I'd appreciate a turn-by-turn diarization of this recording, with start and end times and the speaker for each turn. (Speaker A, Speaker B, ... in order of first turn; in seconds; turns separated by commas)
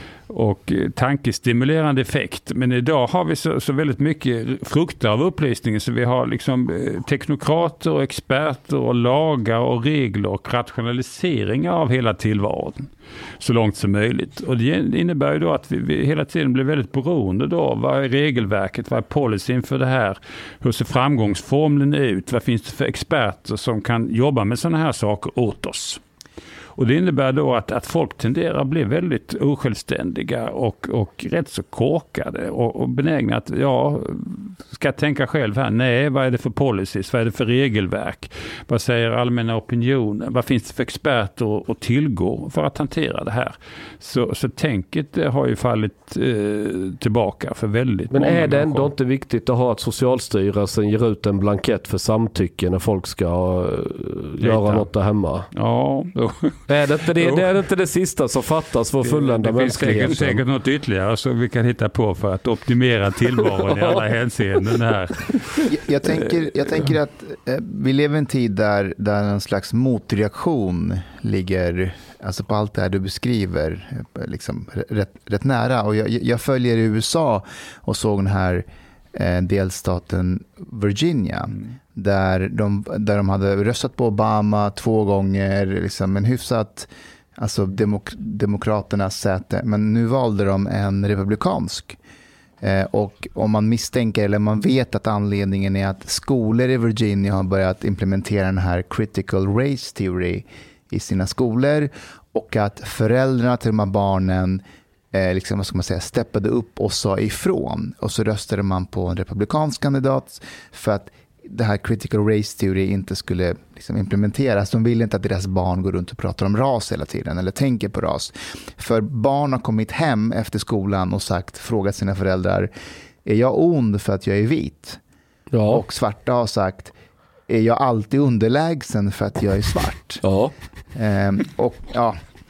Speaker A: 0.3-26.0, Speaker A: 26.8-48.9, Speaker B: 48.1-55.5, Speaker A: 54.4-54.9, Speaker A: 55.5-57.5, Speaker B: 56.7-60.4, Speaker A: 59.0-65.7, Speaker C: 65.7-92.0, Speaker C: 92.6-104.6, Speaker C: 105.1-122.7, Speaker C: 123.2-125.0, Speaker B: 125.5-125.8, Speaker C: 125.7-126.9, Speaker C: 127.5-130.2, Speaker B: 130.2-130.5, Speaker C: 130.9-132.2